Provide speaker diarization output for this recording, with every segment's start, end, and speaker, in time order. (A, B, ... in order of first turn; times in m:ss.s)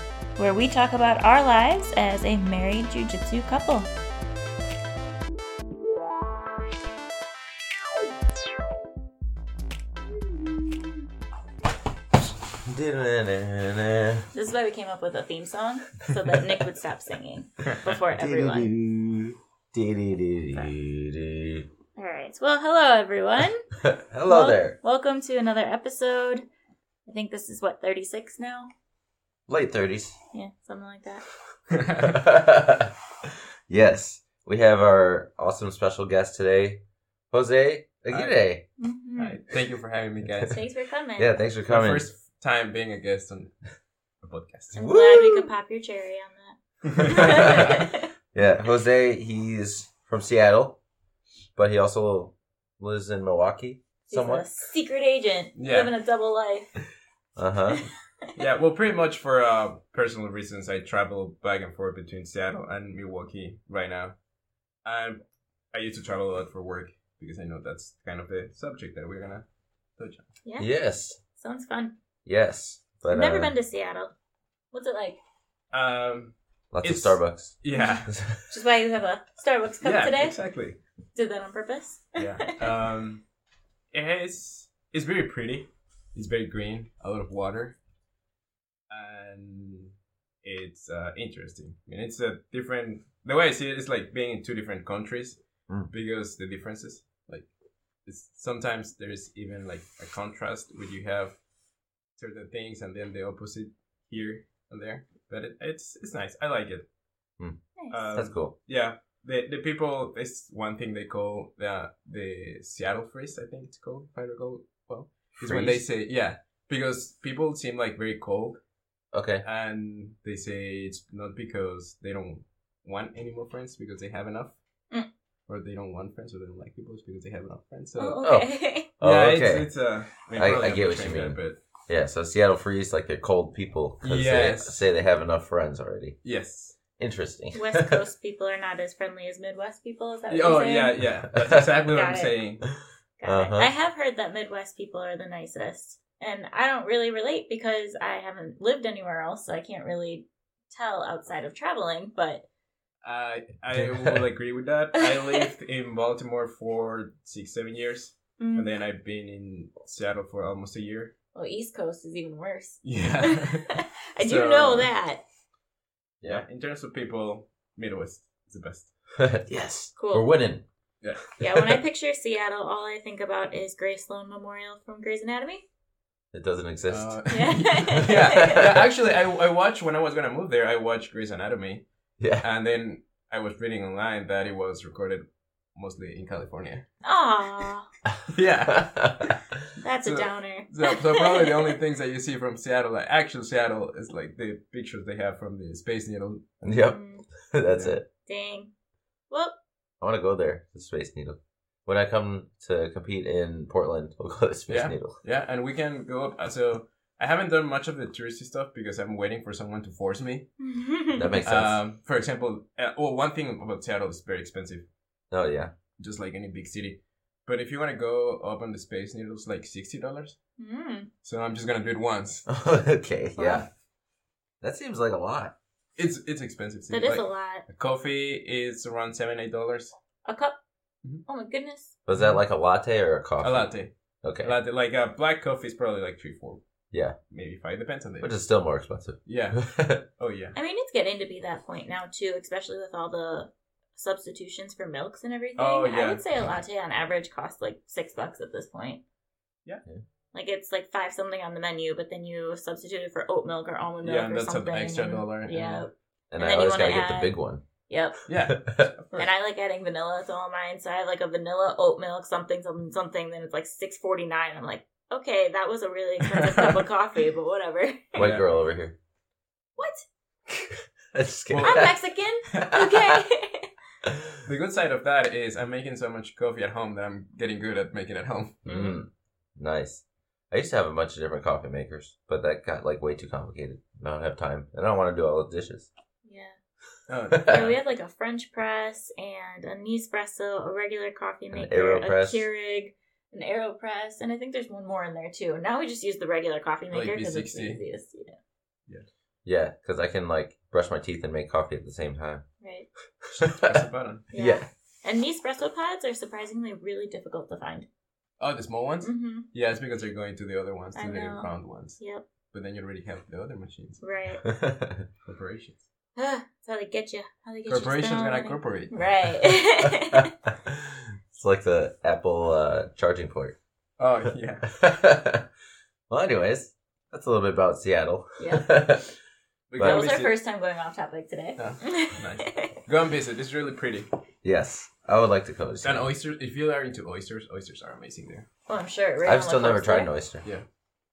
0:00.4-0:03.9 A
0:12.6-0:14.3 B
0:14.3-0:18.7 A
0:18.2-0:21.7 B
0:22.0-0:23.7 A
0:23.8-0:24.8 B
0:24.2-0:26.4 A
0:27.0-0:28.7 A
0:29.5-0:30.1 B
0:30.3-0:31.2 A
0:31.7-0:32.2 C
0:32.0-0:38.6 B
0:38.1-0:38.4 C
0:38.8-0:39.4 A
0:39.2-0:40.6 C
0:40.4-0:41.4 A
0:41.2-0:42.1 B
0:41.6-0:43.5 C
0:44.2-0:44.8 C
0:44.8-0:48.1 A
0:44.8-0:45.5 B
0:46.8-0:47.8 C
0:47.2-0:50.8 B
0:51.6-0:54.5 B
0:54.1-0:56.7 A
0:55.6-0:55.9 C
0:57.4-0:57.8 B
0:57.7-0:58.3 A
0:58.4-1:04.1 C
1:04.8-1:05.2 C
1:05.7-1:09.4 C
1:10.0-1:10.3 C
1:10.4-1:10.7 A
1:10.6-1:11.2 B
1:11.3-1:11.9 A
1:12.2-1:13.5 B
1:13.1-1:14.1 A
1:14.7-1:15.2 A
1:15.7-1:18.1 C
1:16.7-1:18.4 B
1:17.7-1:20.4 A
1:19.8-1:20.8 C
1:21.1-1:22.6 A
1:22.2-1:23.2 C
1:23.9-1:27.8 C
1:28.9-1:35.4 C
1:35.9-1:37.5 C
1:38.0-1:41.4 C
1:42.2-1:46.8 C
1:47.8-1:48.0 A
1:47.9-1:58.6 C
1:48.1-1:48.5 B
1:55.4-1:55.8 B
1:59.1-1:59.4 B
1:59.4-2:04.6 C
2:05.5-2:08.2 C
2:08.0-2:08.9 A
2:08.2-2:09.7 B
2:09.0-2:11.6 C
2:10.3-2:16.2 B
2:14.0-2:14.8 C
2:16.2-2:16.8 C
2:17.0-2:18.0 B
2:17.5-2:21.0 A
2:20.3-2:22.7 C
2:21.8-2:22.4 A
2:23.2-2:32.4 A
2:23.2-2:23.7 B
2:33.0-2:41.1 C
2:33.7-2:34.2 B
2:35.0-2:35.5 A
2:38.4-2:38.7 A
2:41.3-2:45.2 A
2:42.8-2:44.9 C
2:46.2-2:48.9 C
2:49.2-2:50.6 B
2:50.0-2:50.3 A
2:51.0-2:51.3 C
2:51.4-2:55.6 A
2:51.4-2:51.8 B
2:56.3-2:57.2 B
2:56.9-3:01.8 C
2:57.3-2:58.8 A
3:02.2-3:02.5 B
3:02.4-3:05.2 C
3:05.7-3:06.8 C
3:07.0-3:07.9 A
3:08.3-3:09.4 C
3:08.7-3:09.4 B
3:09.8-3:11.7 A
3:10.0-3:16.5 C
3:16.6-3:18.0 B
3:16.8-3:17.2 A
3:18.2-3:18.7 A
3:19.3-3:19.5 A
3:20.0-3:25.2 B
3:24.7-3:30.5 C
3:30.6-3:31.4 A
3:31.2-3:31.8 B
3:31.4-3:34.9 C
3:35.3-3:35.7 B
3:36.0-3:40.4 C
3:40.6-3:41.1 A
3:41.2-3:42.4 C
3:42.5-3:43.7 B
3:43.4-3:43.6 A
3:44.6-3:45.5 B
3:46.0-3:49.9 C
3:46.9-3:47.6 A
3:50.2-3:50.6 A
3:51.2-3:52.0 A
3:52.0-3:53.7 B
3:52.1-3:52.4 C
3:53.4-3:56.6 C
3:54.2-3:54.5 B
3:57.3-3:58.3 C
3:58.2-4:00.0 B
3:59.2-4:00.5 C
4:00.5-4:09.0 A
4:05.6-4:06.2 C
4:10.3-4:17.4 A
4:14.0-4:15.9 C
4:16.3-4:17.6 B
4:17.9-4:18.2 A
4:18.3-4:19.3 C
4:18.6-4:18.9 B
4:19.2-4:28.2 A
4:28.1-4:29.0 B
4:28.2-4:28.4 C
4:29.8-4:30.0 A
4:30.5-4:31.9 B
4:31.5-4:31.9 C
4:31.6-4:33.7 A
4:32.5-4:32.7 C
4:32.6-4:33.1 B
4:34.0-4:34.4 B
4:34.4-4:38.6 C
4:38.6-4:45.9 B
4:38.6-4:39.0 A
4:46.2-4:46.6 A
4:47.1-4:47.8 C
4:47.4-4:58.4 A
4:51.5-4:52.5 B
4:56.9-4:57.8 C
4:59.4-5:02.4 B
5:02.6-5:02.9 A
5:03.2-5:03.7 B
5:03.5-5:04.3 C
5:04.3-5:07.9 A
5:04.3-5:04.7 B
5:08.4-5:12.0 C
5:09.0-5:09.4 A
5:10.9-5:12.2 A
5:12.5-5:14.0 C
5:14.0-5:14.4 A
5:14.4-5:15.1 B
5:15.2-5:15.8 C
5:16.2-5:20.3 A
5:17.7-5:18.9 C
5:19.8-5:23.6 B
5:24.0-5:24.7 C
5:24.6-5:25.5 B
5:26.1-5:29.1 B
5:28.4-5:28.7 A
5:29.7-5:30.3 C
5:29.7-5:30.1 B
5:29.8-5:32.8 A
5:31.6-5:34.1 C
5:34.4-5:36.1 B
5:35.8-5:38.5 C
5:38.7-5:40.1 A
5:39.2-5:40.4 B